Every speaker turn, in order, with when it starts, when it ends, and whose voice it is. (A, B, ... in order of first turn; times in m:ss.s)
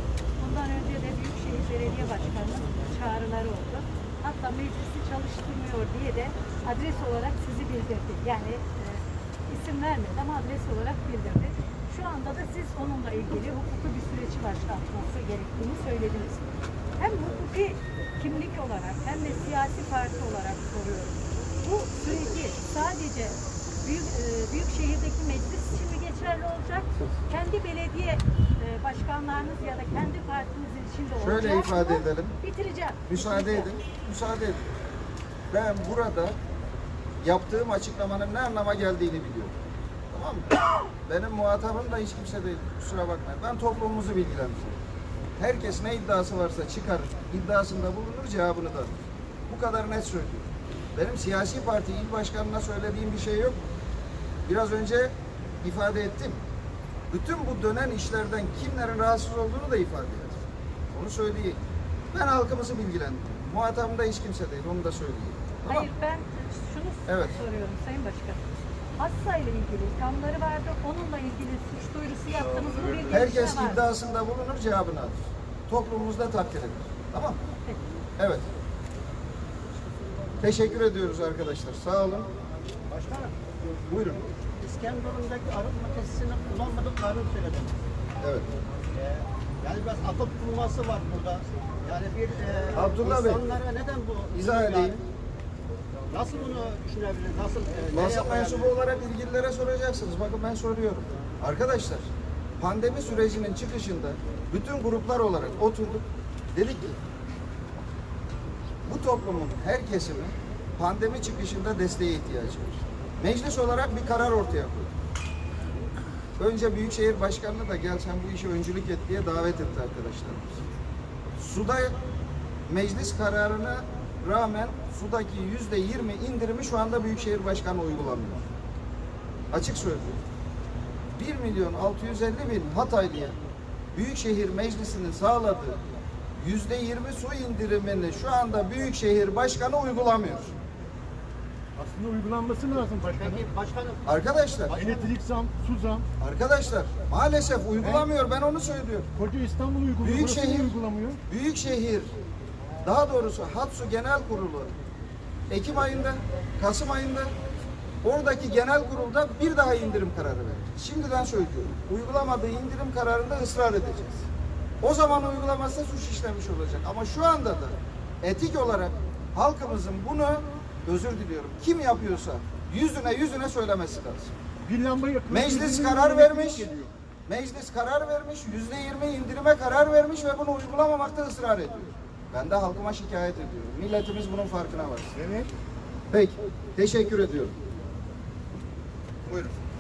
0:00.4-0:16.4 A
0:17.0-0:33.7 A
0:31.2-0:32.4 B
0:33.1-0:34.7 B
0:35.5-0:36.4 B
0:37.2-0:39.6 B
0:40.1-0:40.5 B
0:41.1-0:44.8 B
0:45.4-0:53.7 B
0:54.5-0:56.4 B
0:57.1-1:01.6 B
1:02.1-1:05.9 B
1:05.6-1:13.9 A
1:07.1-1:07.4 B
1:13.1-1:17.4 B
1:18.2-1:18.5 B
1:20.4-1:22.3 B
1:22.9-1:23.4 C
1:23.9-1:24.2 B
1:24.6-1:27.8 C
1:28.2-1:28.5 B
1:28.9-1:35.0 C
1:32.7-1:33.4 B
1:34.4-1:35.0 B
1:36.1-1:38.7 C
1:37.9-1:47.0 B
1:48.9-1:54.9 B
1:56.4-2:00.6 B
2:01.4-2:02.0 B
2:02.7-2:08.4 B
2:09.5-2:10.2 B
2:11.2-2:13.4 B
2:13.9-2:15.8 B
2:16.4-2:20.6 B
2:21.8-2:23.4 D
2:23.0-2:25.1 C
2:24.0-2:24.7 B
2:24.7-2:26.1 D
2:26.2-2:29.1 B
2:29.2-2:31.2 D
2:30.0-2:30.7 B
2:31.3-2:32.1 B
2:32.8-2:34.7 B
2:35.5-2:37.3 B
2:38.0-2:44.3 B
2:44.8-2:54.3 B
2:54.6-2:56.9 D
2:55.3-2:56.7 B
2:57.3-3:05.2 B
3:05.2-3:05.5 D
3:06.1-3:07.6 B
3:09.3-3:09.6 B